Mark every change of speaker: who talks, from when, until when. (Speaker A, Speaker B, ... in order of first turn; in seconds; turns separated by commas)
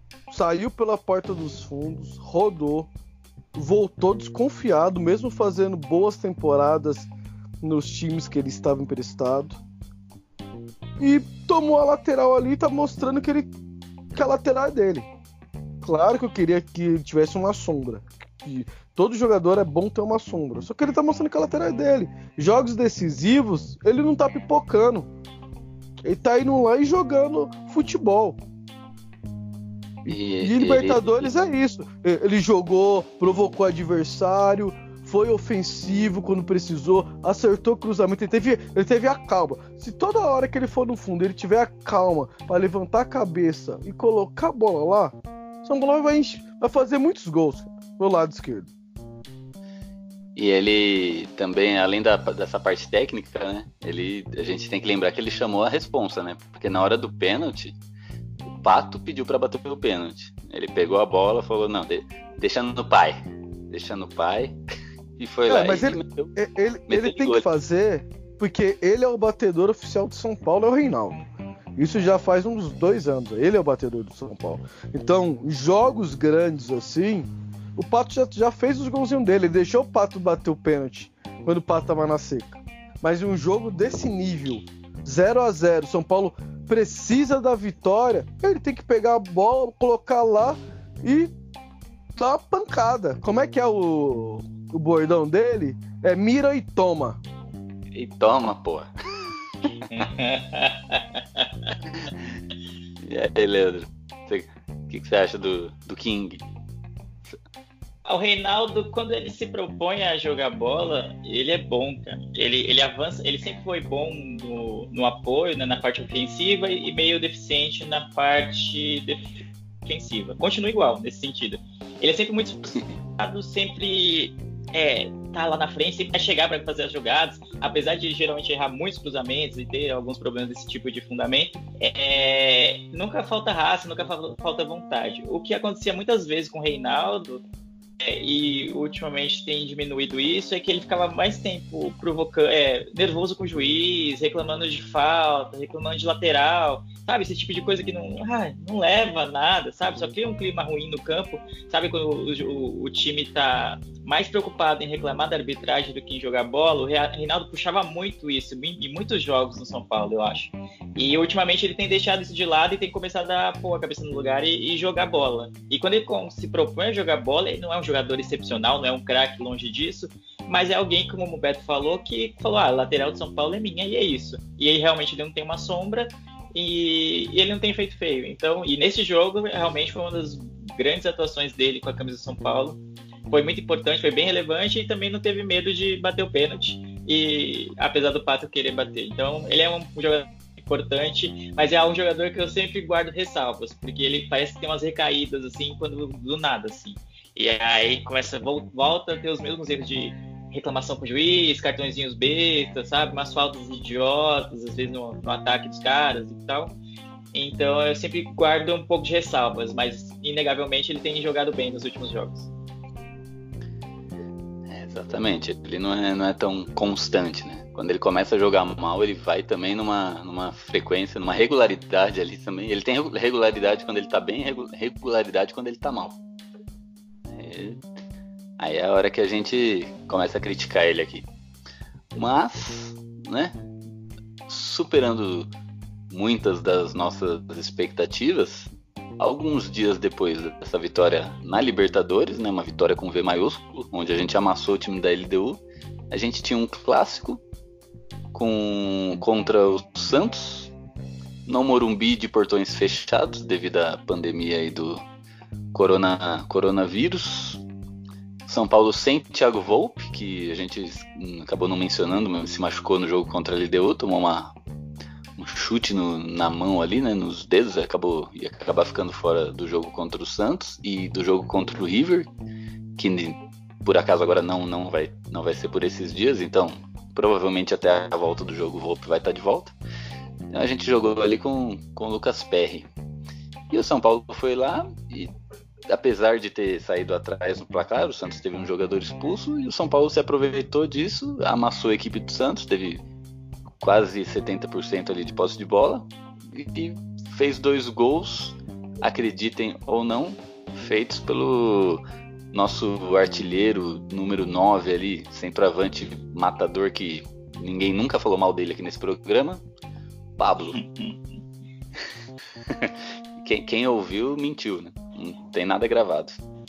Speaker A: 0.3-2.9, Speaker A: 3.5-7.1, Speaker A: 7.6-9.6, Speaker A: 11.0-13.5, Speaker A: 14.1-15.1, Speaker A: 15.8-25.1, Speaker A: 26.0-28.4, Speaker B: 30.1-31.3, Speaker A: 30.4-48.7, Speaker B: 50.4-57.8, Speaker B: 58.6-64.6, Speaker B: 65.2-66.3, Speaker A: 65.5-71.2, Speaker B: 66.9-67.5, Speaker A: 71.8-91.3, Speaker A: 92.2-97.2, Speaker B: 97.9-99.3, Speaker C: 99.9-101.5, Speaker B: 103.0-106.5, Speaker C: 108.1-137.4, Speaker C: 138.0-182.8, Speaker C: 183.3-206.8, Speaker C: 207.3-212.5, Speaker B: 214.7-226.2, Speaker B: 227.3-227.8, Speaker B: 228.6-231.3, Speaker B: 232.2-233.6, Speaker B: 234.5-235.5, Speaker B: 236.1-247.4, Speaker B: 248.3-250.7, Speaker B: 251.5-255.0, Speaker B: 255.7-257.6, Speaker B: 258.5-264.5, Speaker B: 265.4-272.3, Speaker B: 273.0-279.7, Speaker B: 280.5-282.9, Speaker B: 283.7-285.3, Speaker B: 285.9-293.0, Speaker B: 293.8-309.6, Speaker B: 310.4-310.8, Speaker C: 310.8-311.2, Speaker B: 312.7-316.4